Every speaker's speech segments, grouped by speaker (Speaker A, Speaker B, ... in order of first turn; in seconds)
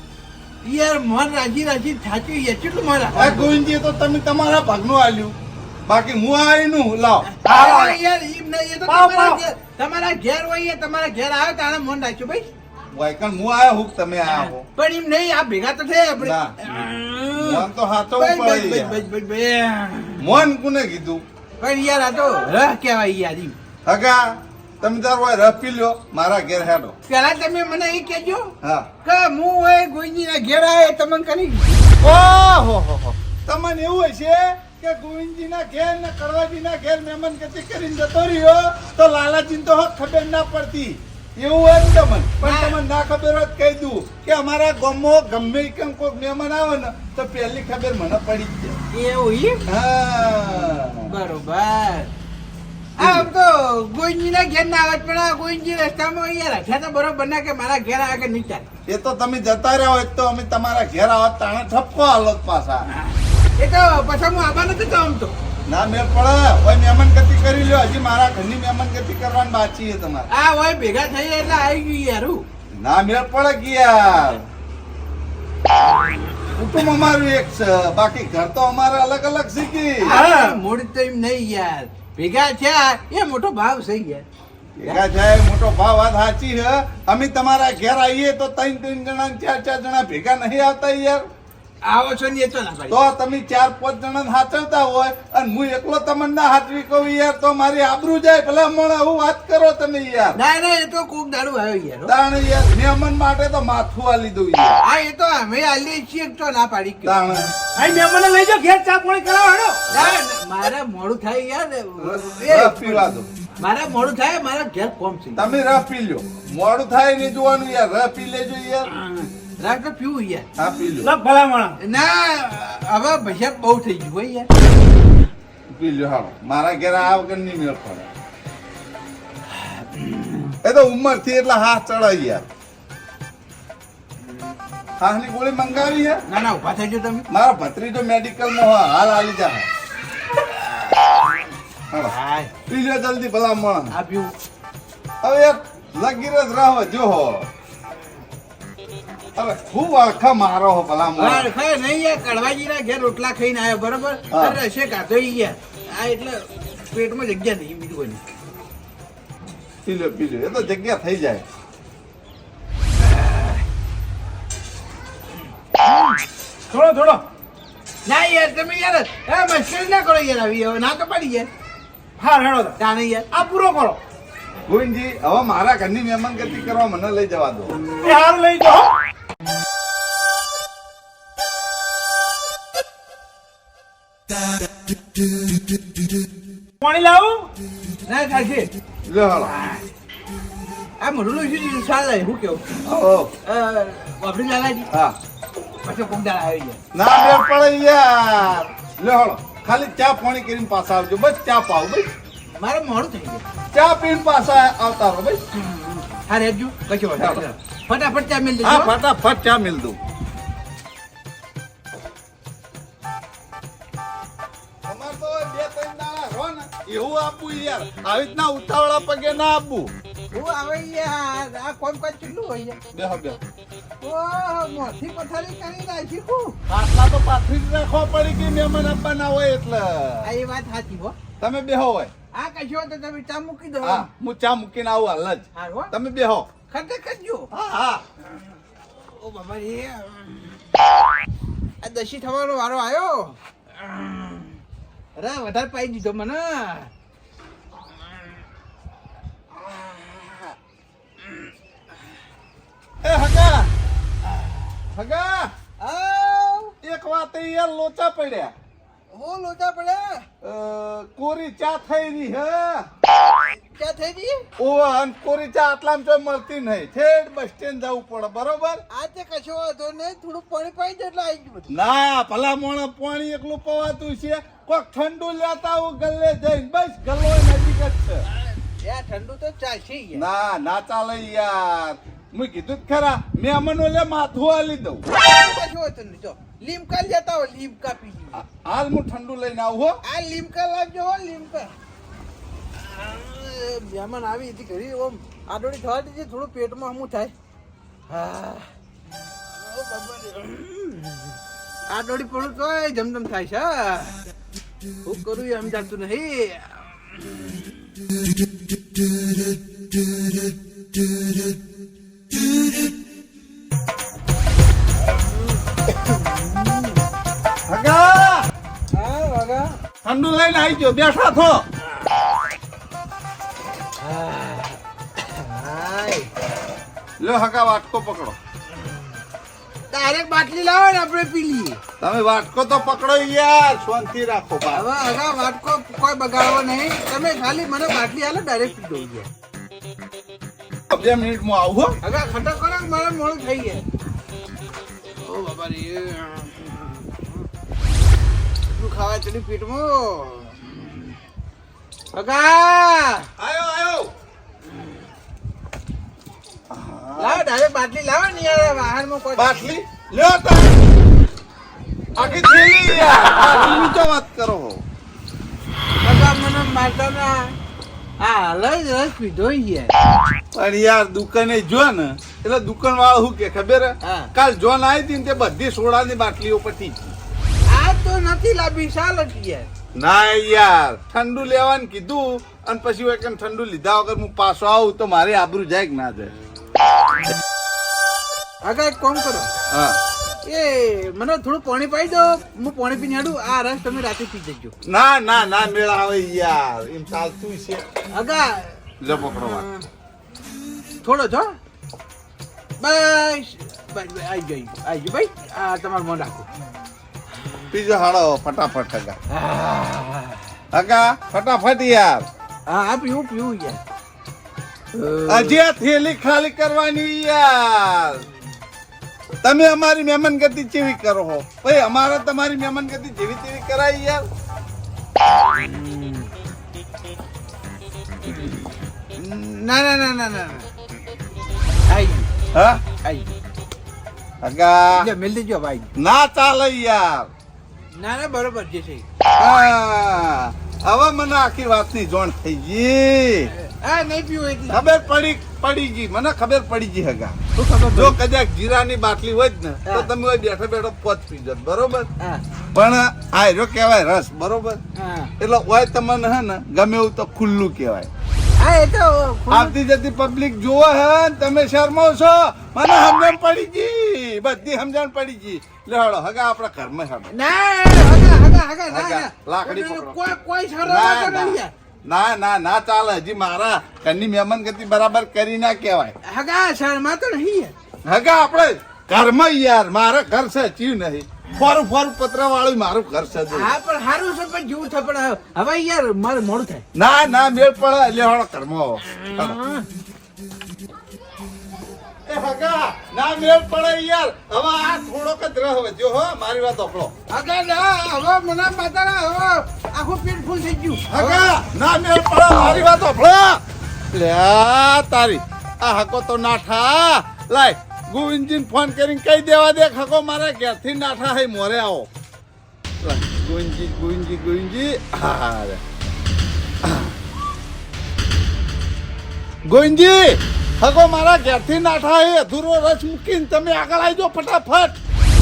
Speaker A: 0.6-3.5, 7.3-12.5, 14.2-20.3, 21.6-23.5, 27.1-28.5, 29.0-32.0, 42.4-42.8, 48.9-49.6, 50.5-52.1, 53.0-58.7, 63.6-65.3, 70.3-72.4, 80.0-84.2, 91.8-93.0, 100.3-102.1, 104.8-107.2, 109.9-113.0, 113.6-115.4, 119.2-120.5, 121.8-124.5, 130.0-130.5, 136.3-137.2, 142.1-142.5, 143.9-144.3, 151.2-158.2, 163.0-163.6, 165.8-166.1, 168.1-171.5, 172.8-173.3, 188.1-188.7, 191.0-192.8, 193.4-194.9, 195.8-196.8, 202.6-203.5, 205.6-208.9, 220.3-222.8, 224.0-226.6, 230.2-231.2, 232.3-234.1, 235.5-235.9, 236.7-237.5, 239.0-240.6, 241.8-244.5, 245.2-246.9, 249.6-250.5, 255.8-256.7, 259.1-260.2, 263.3-264.4, 268.9-271.7, 278.8-280.2, 285.1-288.4, 290.0-291.7, 292.8-297.3, 298.1-298.7, 299.6-301.3, 301.9-304.1, 305.1-306.9, 316.0-317.0, 318.9-319.7, 324.0-326.3, 329.9-331.8, 334.7-339.3, 342.0-343.8, 345.2-347.2, 348.7-350.8, 352.1-353.3, 357.2-359.7, 366.0-367.5, 368.2-369.9, 374.0-374.3, 377.7-379.7, 388.6-389.5, 390.4-394.7, 398.1-399.8, 401.0-401.5, 402.8-406.4, 409.3-410.4, 412.7-413.8, 414.9-415.6, 425.3-426.3, 428.3-428.5, 429.1-430.7, 431.9-432.3, 433.0-433.3, 434.9-435.9, 438.0-439.0, 443.6-444.9, 447.6-448.2, 455.0-455.3, 458.6-459.7, 467.3-471.7, 476.2-477.7, 483.5-486.8, 489.3-489.8, 497.3-501.4
Speaker B: 3.1-5.3, 5.9-7.3, 12.9-14.7, 16.2-16.5, 17.4-19.0, 20.2-21.2, 23.9-26.9, 28.6-28.9, 32.0-48.8, 49.7-51.1, 53.0-53.3, 58.9-62.9, 65.7-70.3, 72.8-74.4, 76.6-80.2, 84.8-91.2, 92.9-100.4, 102.0-104.8, 107.0-107.5, 109.9-110.2, 112.0-113.3, 115.3-118.9, 120.6-121.1, 125.7-128.1, 130.6-132.4, 135.0-136.2, 137.3-139.7, 142.7-143.9, 145.2-147.5, 149.4-151.5, 154.3-154.6, 159.8-161.4, 174.7-177.8, 189.1-189.5, 192.8-193.3, 196.9-202.1, 203.7-205.4, 208.6-210.0, 214.8-219.9, 222.9-223.4, 226.7-230.3, 231.4-232.1, 233.8-236.5, 237.5-238.0, 253.0-253.7, 254.9-255.5, 256.8-258.5, 260.4-262.9, 264.6-268.8, 271.7-278.2, 280.1-285.0, 288.4-290.0, 317.7-318.5, 320.0-321.6, 327.2-328.4, 332.0-334.9, 340.9-342.0, 353.4-354.1, 356.7-357.4, 359.4-360.7, 362.1-364.8, 370.5-377.1, 380.0-386.3, 389.7-390.0, 394.9-397.9, 399.0-399.7, 407.7-409.2, 410.7-412.3, 415.3-418.2, 419.4-424.2, 432.5-432.8, 434.4-435.1, 435.9-437.3, 439.4-443.5, 444.7-447.4, 447.9-452.1, 452.7-454.8, 455.4-458.1, 459.5-467.3, 468.9-470.1, 470.8-476.1, 478.1-483.7, 486.9-489.6, 492.3-497.1, 501.1-503.6, 504.1-512.1, 513.0-515.8, 516.8-517.1, 519.7-525.0
Speaker C: 7.4-8.0, 8.9-9.4, 80.1-80.6, 107.8-109.8, 121.0-121.8, 166.7-167.2, 172.2-172.8, 173.3-174.0, 178.0-178.9, 186.8-187.5